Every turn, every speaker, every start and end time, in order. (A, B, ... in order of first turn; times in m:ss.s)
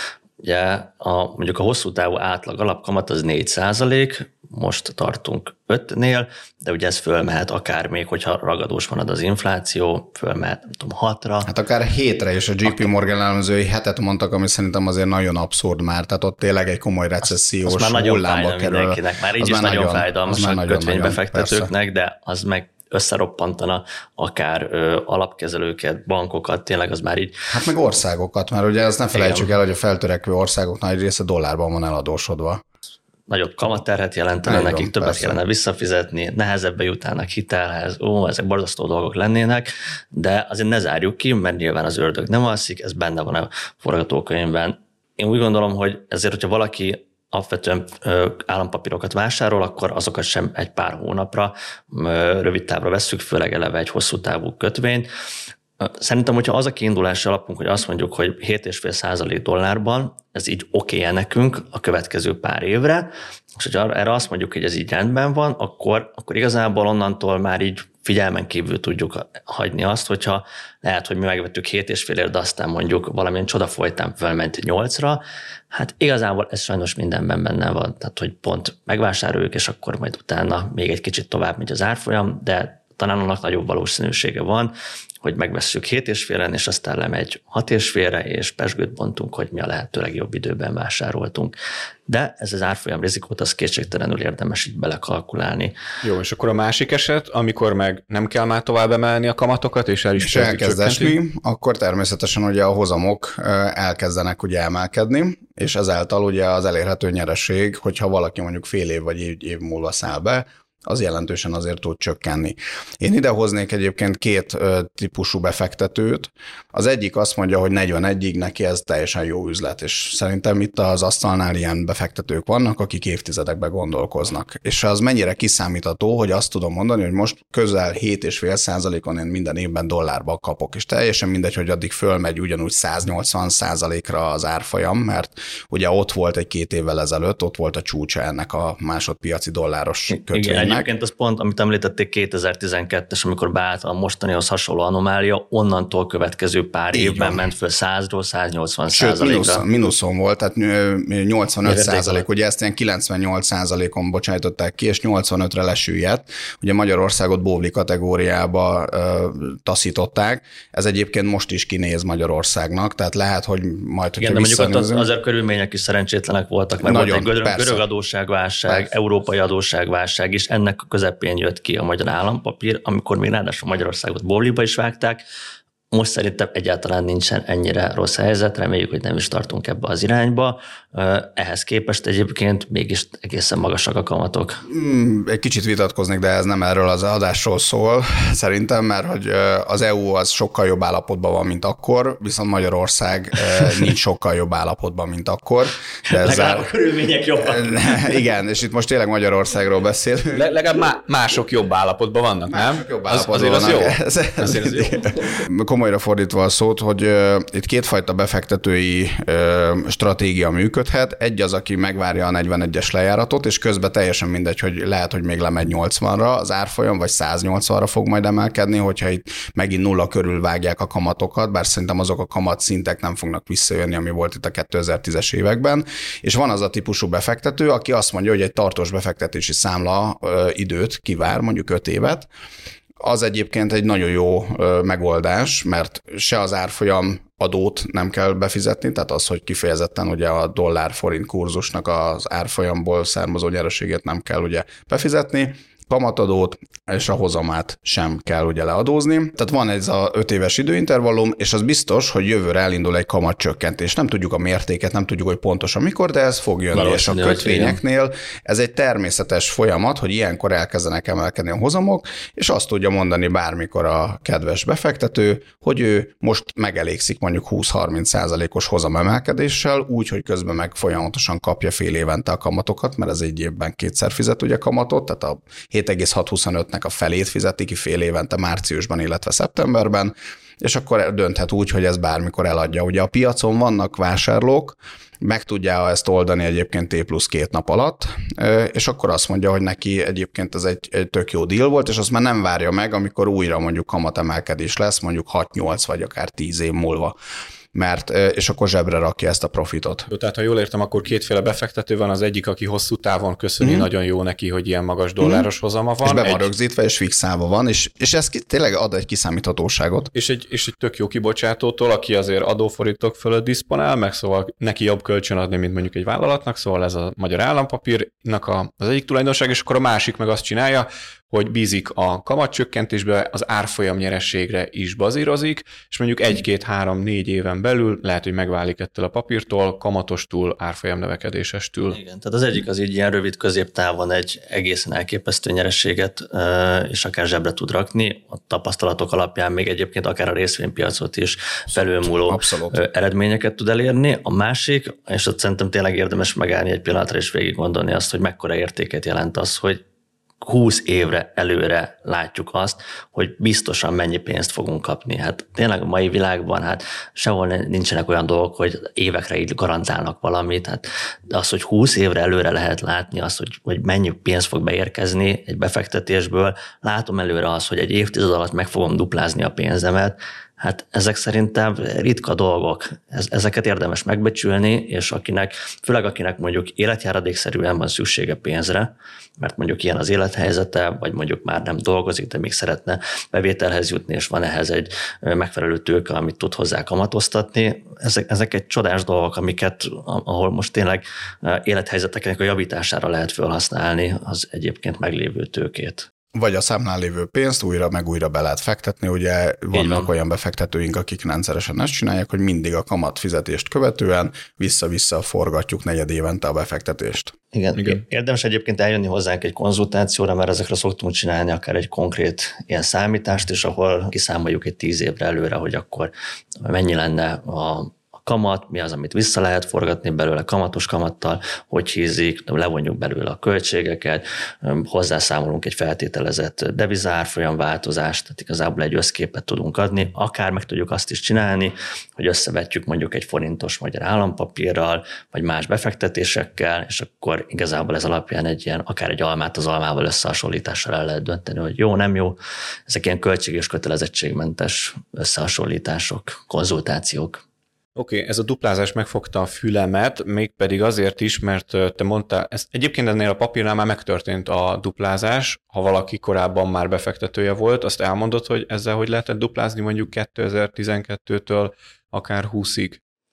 0:00.4-0:11.5 A
0:11.4-0:21.7 B
0:12.6-0:12.9 A
0:17.6-0:27.4 A
0:27.5-0:32.6 B
0:29.1-0:29.5 A
0:33.3-0:55.1 A
0:34.4-0:35.4 B
0:55.8-1:31.5 A
1:32.1-1:35.8 A
1:36.0-1:41.2 C
1:40.2-2:20.9 B
2:20.1-2:29.6 A
2:26.9-2:27.4 B
2:28.9-2:45.1 B
2:31.6-2:32.2 A
2:44.2-2:55.2 A
2:46.8-2:47.8 B
2:55.9-3:04.6 A
3:04.7-3:16.7 B
3:16.1-3:18.2 A
3:17.4-3:20.4 B
3:20.3-3:25.3 C
3:22.5-3:52.3 B
3:53.0-4:57.1 B
4:16.7-4:17.8 A
4:57.7-5:00.1 B
5:00.1-5:06.5 C
5:03.6-5:03.9 B
5:05.2-5:05.5 B
5:06.0-5:10.1 B
5:10.1-5:32.0 C
5:31.9-5:49.8 A
5:42.0-5:42.8 B
5:50.4-6:36.1 A
6:36.3-6:47.3 B
6:39.7-6:40.1 A
6:47.5-7:27.4 A
6:47.8-6:48.0 C
7:28.0-7:43.0 C